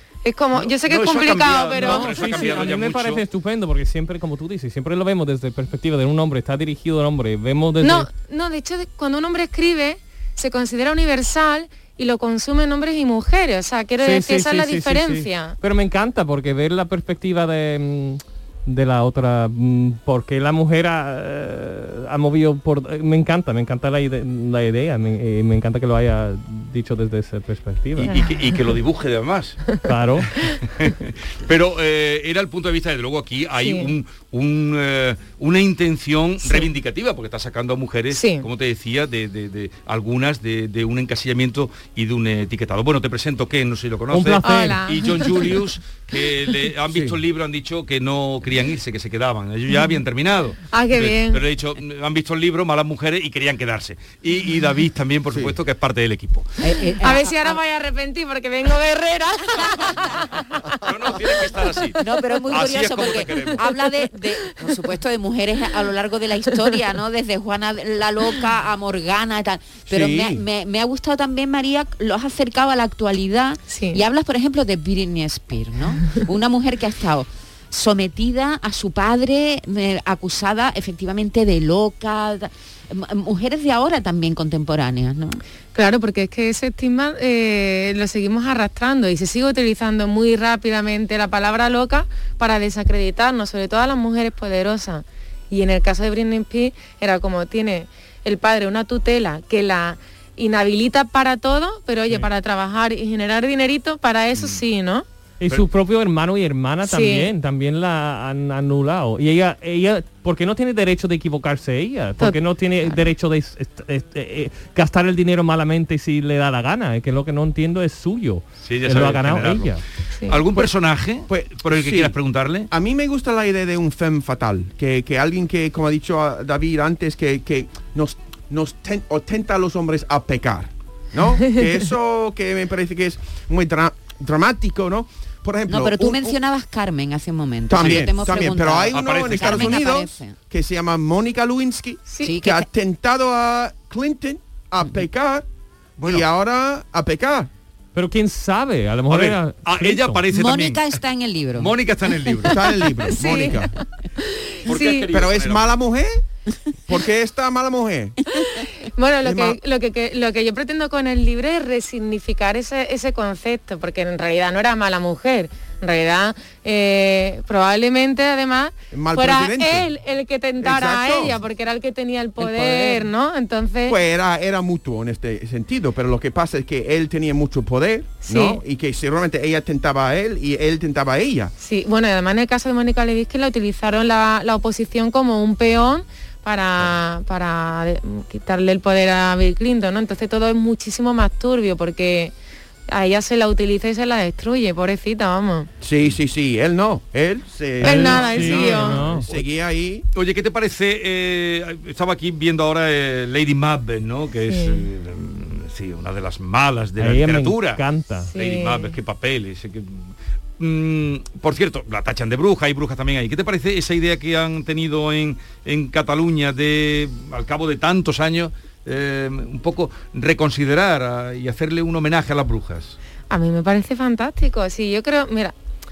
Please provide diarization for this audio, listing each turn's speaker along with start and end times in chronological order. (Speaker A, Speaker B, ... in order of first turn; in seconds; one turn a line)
Speaker A: 0.2-2.4
Speaker B: 0.5-3.2
Speaker C: 1.7-8.1
Speaker A: 7.8-15.6
Speaker C: 14.0-28.1
Speaker B: 28.0-29.6
Speaker C: 29.9-30.3
Speaker B: 30.7-56.6
Speaker A: 33.6-33.9
Speaker A: 38.1-38.5
Speaker C: 44.1-44.8
Speaker A: 44.4-45.5
Speaker D: 46.9-47.2
Speaker A: 50.7-51.4
Speaker E: 56.6-57.6
Speaker A: 57.0-60.4
Speaker B: 60.8-63.7
Speaker E: 62.0-85.4
Speaker D: 69.9-70.4
Speaker A: 73.7-74.0
Speaker A: 85.7-105.1
Speaker B: 104.3-104.6
Speaker C: 105.4-119.8
Speaker A: 106.8-107.3
Speaker A: 112.2-113.1
Speaker B: 118.6-122.7
Speaker D: 121.3-122.2
Speaker D: 122.7-136.4
Speaker E: 135.7-140.3
Speaker D: 137.7-145.4
Speaker B: 138.9-139.8
Speaker E: 142.2-142.7
Speaker B: 146.0-146.3
Speaker D: 146.0-147.5
Speaker C: 147.9-150.2
Speaker B: 149.1-151.0
Speaker E: 150.3-151.7
Speaker B: 151.6-152.6
Speaker D: 152.5-153.7
Speaker A: 153.1-153.6
Speaker A: 154.2-155.1
Speaker B: 154.7-155.8
Speaker D: 155.1-156.2
Speaker D: 156.9-158.2
Speaker A: 158.8-174.0
Speaker D: 159.2-159.6
Speaker D: 168.9-169.9
Speaker D: 170.6-171.4
Speaker C: 172.4-173.1
Speaker D: 173.9-181.5
Speaker A: 178.2-178.6
Speaker A: 181.6-192.3
Speaker A: 192.9-195.7
Speaker D: 195.8-200.1
Speaker C: 197.8-199.2
Speaker A: 197.8-199.1
Speaker B: 200.2-207.8
Speaker A: 204.5-204.9
Speaker C: 207.0-208.3
Speaker A: 208.3-208.9
Speaker B: 208.3-223.0
Speaker A: 223.3-225.5